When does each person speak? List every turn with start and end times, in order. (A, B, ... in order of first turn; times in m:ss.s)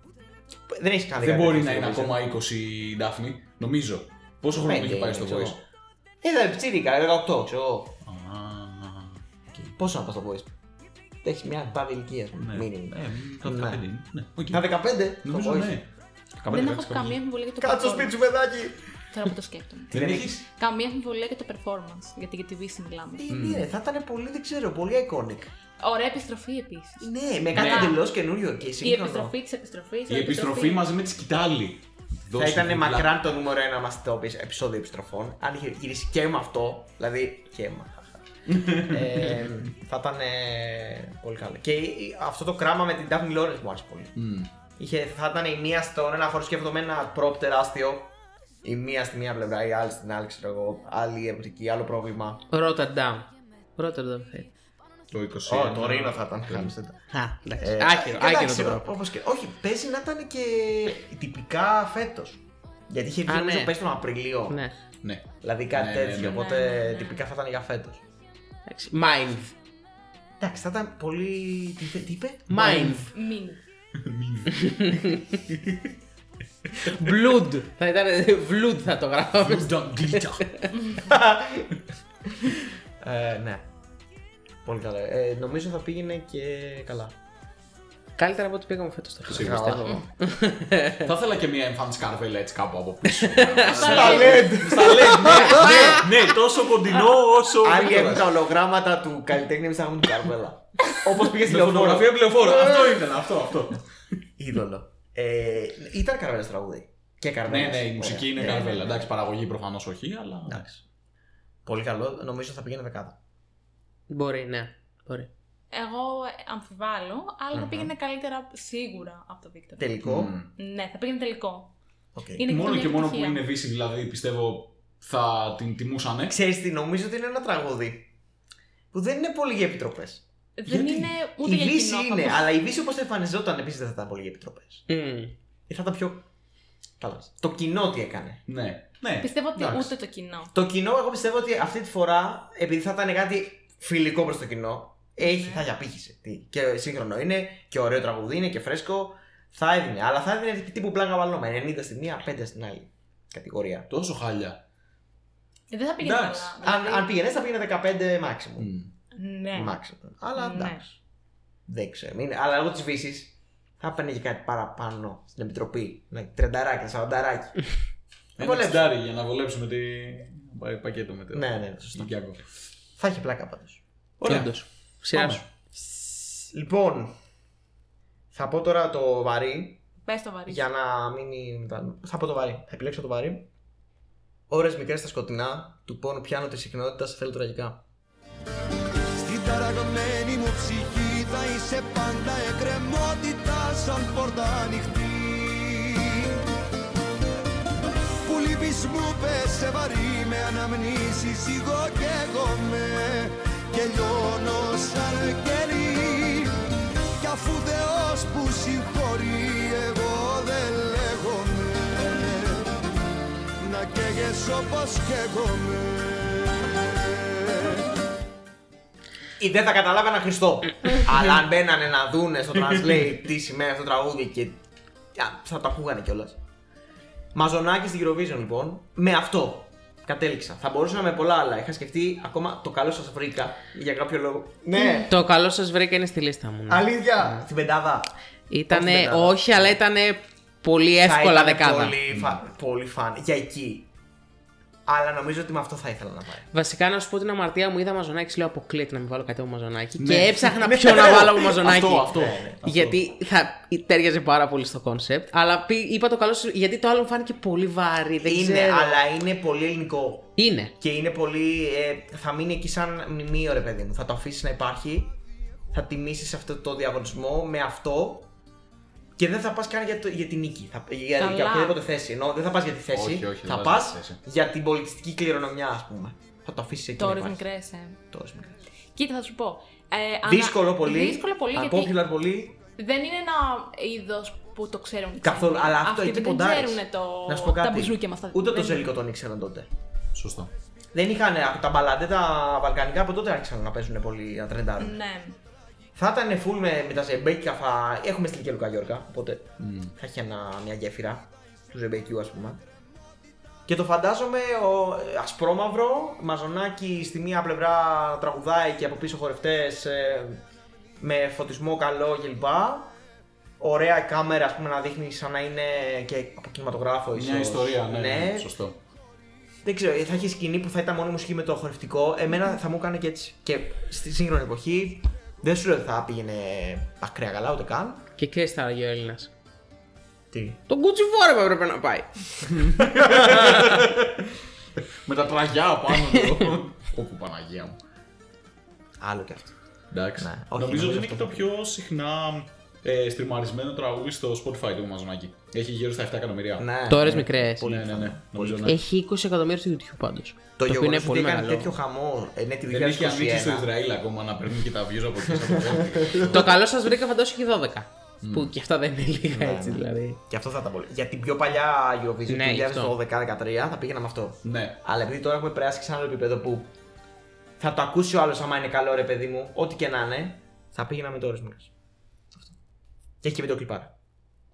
0:00.7-0:02.2 A
0:01.2-0:05.6 B
0:04.5-0:05.6 A
0:06.2-0:08.0 A
0:08.0-0:09.7 B
0:09.8-0:10.5 A
0:11.2-0:13.8 A
0:12.4-0:15.9 B
0:14.5-0:15.8 A
0:16.4-0:17.2 B
0:16.5-0:18.2 C
0:17.6-0:18.8 A
0:19.1-0:23.3 C
0:19.9-0:20.4 A
0:19.9-0:20.4 B
0:23.2-0:25.5 A
0:23.3-0:23.7 B
0:25.8-0:28.0 C
0:27.0-0:29.4 A
0:27.5-0:28.0 B
0:28.7-0:30.9 C
0:30.1-0:33.1 B
0:32.3-0:44.2 A
0:38.5-0:39.5 B
0:44.2-0:44.5 B
0:44.8-0:52.4 A
0:52.5-0:54.5 D
0:55.1-0:56.7 B
0:55.4-0:57.0 A
0:57.1-0:58.9 D
0:57.6-1:04.6 A
1:03.3-1:03.8 D
1:04.5-1:04.8 D
1:05.0-1:06.4 B
1:05.4-1:08.0 A
1:06.3-1:07.2 C
1:08.7-1:09.5 D
1:10.4-1:13.1 A
1:12.5-1:13.1 D
1:12.5-1:13.0 B
1:13.1-1:13.6 C
1:14.0-1:15.8 B
1:14.6-1:15.2 D
1:16.9-1:20.7 D
1:19.4-1:20.5 B
1:21.0-1:21.8 A
1:22.3-1:23.7 A
1:24.6-1:27.2 A
1:28.2-1:31.1 D
1:29.3-1:30.1 A
1:29.3-1:29.8 B
1:31.0-1:38.3 B
1:33.3-1:33.8 D
1:33.7-1:36.2 A
1:33.8-1:34.5 C
1:35.2-1:35.8 D
1:37.6-1:43.1 A
1:41.3-1:43.8 B
1:44.4-1:49.0 A
1:47.5-1:50.8 B
1:48.4-1:49.0 C
1:50.5-1:50.8 A
1:51.7-1:53.2 A
1:54.1-1:55.3 D
1:55.7-1:59.9 C
1:57.5-1:57.9 A
1:59.8-2:00.4 A
2:00.0-2:00.5 B
2:00.6-2:01.8 C
2:02.2-2:02.5 A
2:02.4-2:03.4 C
2:02.5-2:06.4 B
2:06.3-2:08.1 A
2:08.9-2:10.2 A
2:10.6-2:12.4 C
2:10.7-2:11.1 B
2:11.4-2:14.9 A
2:14.9-2:15.4 D
2:15.7-2:16.3 A
2:17.0-2:18.4 A
2:18.5-2:19.9 B
2:19.2-2:20.5 C
2:20.5-2:33.9 A
2:25.2-2:25.6 C
2:33.9-2:34.6 B
2:35.7-2:37.1 C
2:36.0-2:36.6 B
2:36.6-2:38.7 A
2:38.6-2:38.9 B
2:39.1-2:39.8 C
2:39.5-2:41.0 A
2:40.4-2:40.8 C
2:41.7-2:47.7 A
2:48.4-2:52.4 B
2:48.4-2:49.0 A
2:51.3-2:52.2 A
2:53.0-2:54.4 A
2:54.2-2:54.5 B
2:54.2-2:55.4 D
2:55.1-2:55.4 B
2:55.2-2:57.2 A
2:58.3-2:59.8 A
3:00.1-3:00.6 C
3:00.5-3:03.5 A
3:04.5-3:07.8 A
3:09.2-3:16.4 E
3:18.2-3:26.6 E
3:27.2-3:32.7 E
3:33.6-3:37.8 E
3:39.4-3:44.6 A
3:45.2-3:46.4 A
3:47.3-3:55.1 A
3:54.8-3:55.1 C
3:55.1-3:57.4 D
3:56.7-3:58.1 A
3:58.5-4:02.0 D
3:58.7-3:59.8 A
4:01.0-4:03.9 A
4:02.1-4:02.4 B
4:04.9-4:06.5 A
4:06.5-4:12.1 D
4:10.0-4:13.0 B
4:10.6-4:12.6 A
4:12.6-4:19.0 D
4:18.2-4:25.2 A
4:20.4-4:20.7 D
4:25.7-4:28.3 A
4:29.2-4:37.4 A
4:31.2-4:31.8 C
4:32.9-4:34.2 B
4:37.0-4:38.0 C
4:38.1-4:38.6 A
4:39.0-4:42.0 C
4:40.2-4:42.6 A
4:42.8-4:48.9 C
4:45.2-4:49.7 A
4:50.1-4:50.5 B
4:50.9-4:55.0 A
4:54.8-4:55.4 C
4:56.0-5:02.6 A
4:59.6-4:59.9 B
5:03.7-5:10.4 A
5:11.0-5:12.9 A
5:13.6-5:18.5 A
5:17.2-5:18.8 B
5:19.6-5:28.1 A
5:28.2-5:29.3 D
5:30.3-5:30.6 A
5:30.7-5:32.5 D
5:32.6-5:34.2 B
5:35.0-5:37.8 B
5:39.0-5:39.5 A
5:39.9-5:46.7 B
5:40.2-5:41.5 A
5:46.6-5:48.8 A
5:46.9-5:47.7 D
5:47.6-5:48.8 B
5:48.6-5:51.7 D
5:50.6-5:53.7 A
5:52.7-5:56.6 B
5:55.3-5:56.6 A
5:56.3-6:00.2 D
5:58.2-5:58.5 B
5:59.3-6:06.7 A
6:02.3-6:02.9 D
6:04.4-6:04.8 B
6:07.6-6:11.7 A
6:13.2-6:13.9 A